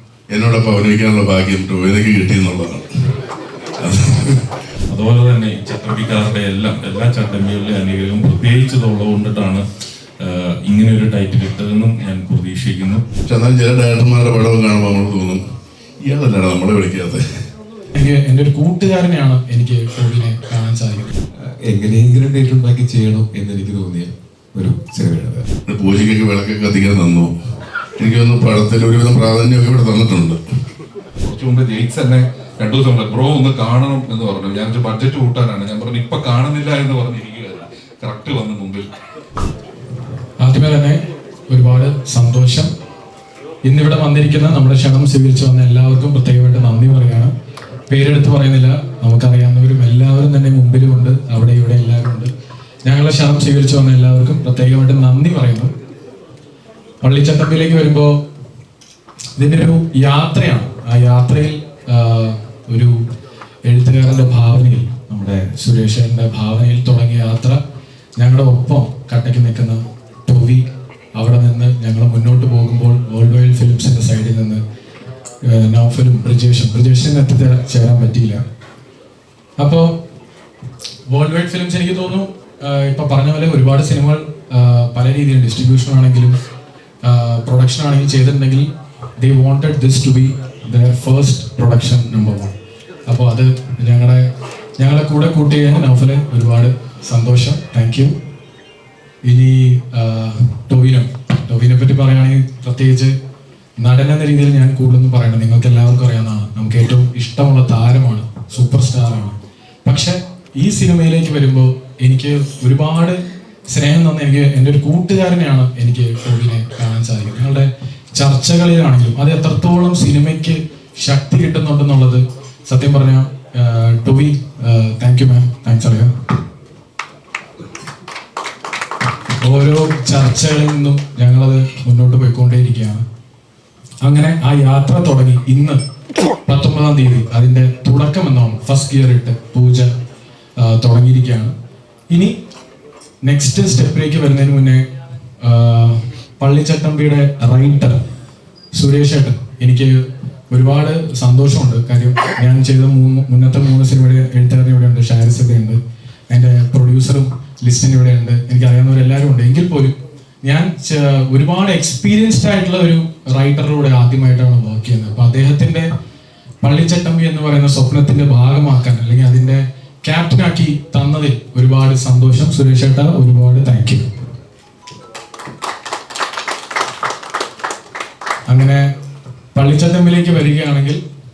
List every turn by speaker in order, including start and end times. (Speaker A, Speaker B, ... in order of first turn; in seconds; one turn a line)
Speaker A: 0.3-3.1
Speaker A: 3.8-4.5
Speaker B: 4.9-9.6
Speaker B: 10.2-13.0
Speaker A: 13.3-15.4
Speaker A: 16.0-17.4
Speaker C: 17.9-21.1
Speaker D: 21.4-25.4
Speaker A: 25.7-27.3
Speaker A: 28.0-30.4
Speaker E: 31.2-38.9
Speaker C: 40.4-42.7
Speaker C: 43.6-47.3
Speaker C: 47.9-52.3
Speaker C: 52.9-55.7
Speaker C: 57.0-58.2
Speaker C: 59.4-63.0
Speaker C: 63.7-67.6
Speaker C: 68.2-74.6
Speaker C: 75.5-78.4
Speaker C: 79.6-80.0
Speaker C: 81.1-86.4
Speaker C: 87.0-88.7
Speaker C: 89.2-92.5
Speaker C: 93.1-94.3
Speaker C: 94.8-98.1
Speaker C: 99.3-103.1
Speaker C: 103.8-126.1
Speaker C: 129.4-133.0
Speaker C: 134.0-135.8
Speaker C: 136.4-139.9
Speaker C: 140.6-141.5
Speaker C: 143.2-144.8
Speaker C: 145.4-148.0
Speaker C: 148.7-150.0
Speaker C: 150.5-155.8
Speaker C: 156.3-165.9
Speaker C: 166.6-174.1
Speaker C: 178.5-178.9
Speaker C: 179.5-181.0